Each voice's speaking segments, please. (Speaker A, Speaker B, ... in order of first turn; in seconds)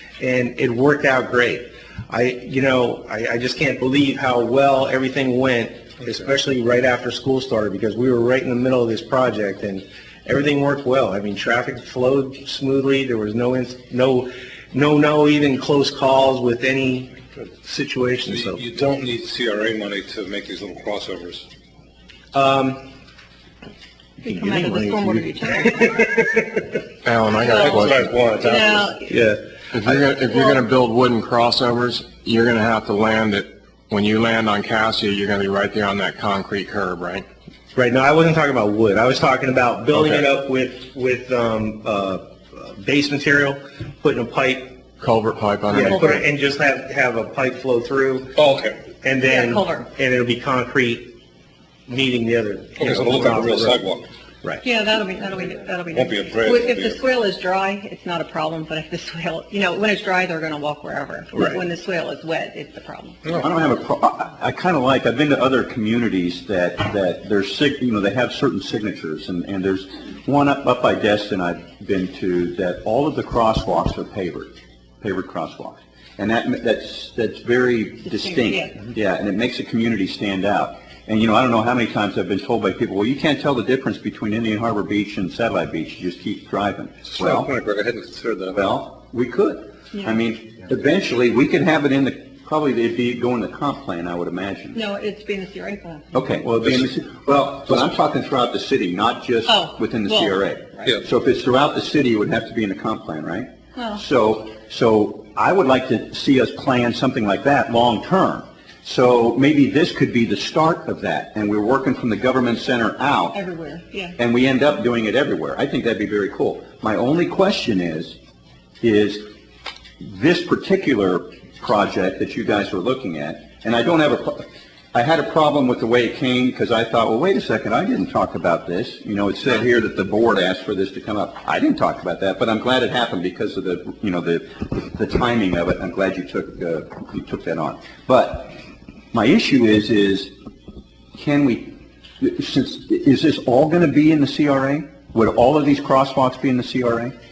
Speaker A: 0.2-18.6, 22.3-22.8, 24.2-26.7, 27.5-29.4, 37.7-44.8, 45.7-48.4, 49.0-51.1, 51.9-53.8, 61.3-61.6
Speaker B: 18.2-21.4, 48.4-48.8, 52.8-54.0, 55.9-57.0, 87.1-88.6
Speaker C: 24.2-25.9, 27.4-29.1, 30.0-30.5, 49.3-49.9, 54.6-63.3, 78.0-78.8, 94.7-96.1, 99.5-100.9, 103.7-104.0, 113.3-114.2
Speaker D: 27.0-28.1, 29.7-37.2, 45.0-46.2
Speaker E: 63.4-87.5, 88.5-94.8, 96.1-113.4, 114.2-118.2, 118.8-119.3, 120.0-138.6, 139.1-140.3, 141.2-147.1